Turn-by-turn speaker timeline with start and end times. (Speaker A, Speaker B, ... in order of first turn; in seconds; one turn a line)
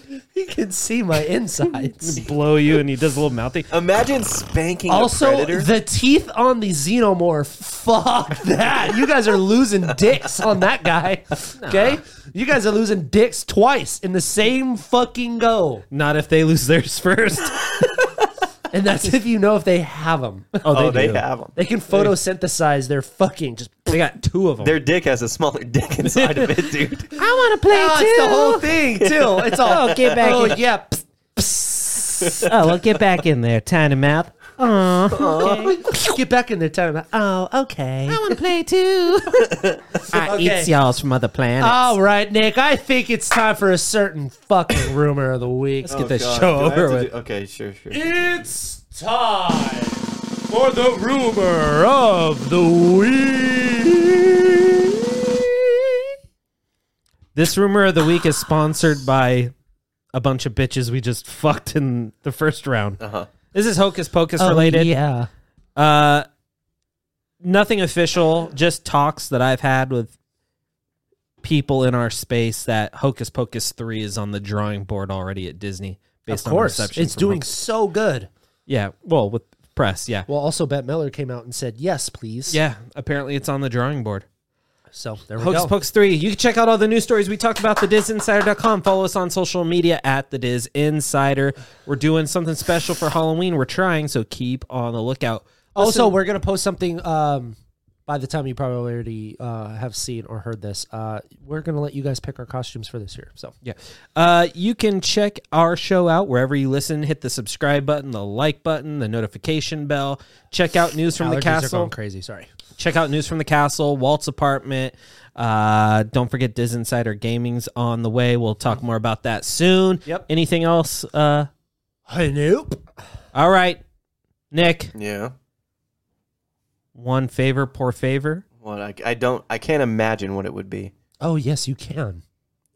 Speaker A: 0.1-2.2
Speaker B: 2.0-3.7
Speaker C: 3.7-5.7
Speaker A: 4.9-15.8
Speaker B: 11.6-12.0
Speaker B: 15.9-17.9
Speaker A: 18.7-20.6
Speaker B: 20.6-21.2
Speaker C: 20.7-21.5
Speaker A: 21.6-23.8
Speaker B: 23.9-24.8
Speaker C: 24.6-27.1
Speaker B: 26.1-28.7
Speaker A: 27.7-32.4
Speaker C: 28.9-30.1
Speaker B: 29.6-30.6
Speaker C: 32.2-33.0
Speaker B: 32.4-36.0
Speaker C: 35.1-35.8
Speaker A: 35.8-38.2
Speaker B: 38.1-39.5
Speaker C: 39.4-39.8
Speaker B: 40.1-42.0
Speaker A: 40.1-40.7
Speaker A: 41.6-46.0
Speaker B: 45.8-47.1
Speaker C: 45.9-48.1
Speaker A: 47.9-54.0
Speaker B: 51.9-52.6
Speaker B: 57.3-59.5
Speaker B: 60.1-63.0
Speaker C: 63.0-63.3
Speaker B: 63.5-64.9
Speaker A: 64.4-65.3
Speaker B: 65.8-66.3
Speaker B: 67.4-70.1
Speaker B: 71.4-77.5
Speaker A: 76.3-78.3
Speaker B: 78.7-80.3
Speaker A: 80.3-82.6
Speaker B: 82.5-84.2
Speaker A: 84.9-85.7
Speaker B: 85.4-96.2
Speaker A: 95.8-103.5
Speaker B: 103.6-111.9
Speaker A: 111.2-112.5
Speaker B: 112.8-121.5
Speaker A: 122.1-122.8
Speaker B: 123.3-123.8
Speaker B: 124.5-124.9
Speaker C: 124.9-125.3
Speaker B: 126.9-128.4
Speaker C: 128.6-130.9
Speaker A: 131.2-132.2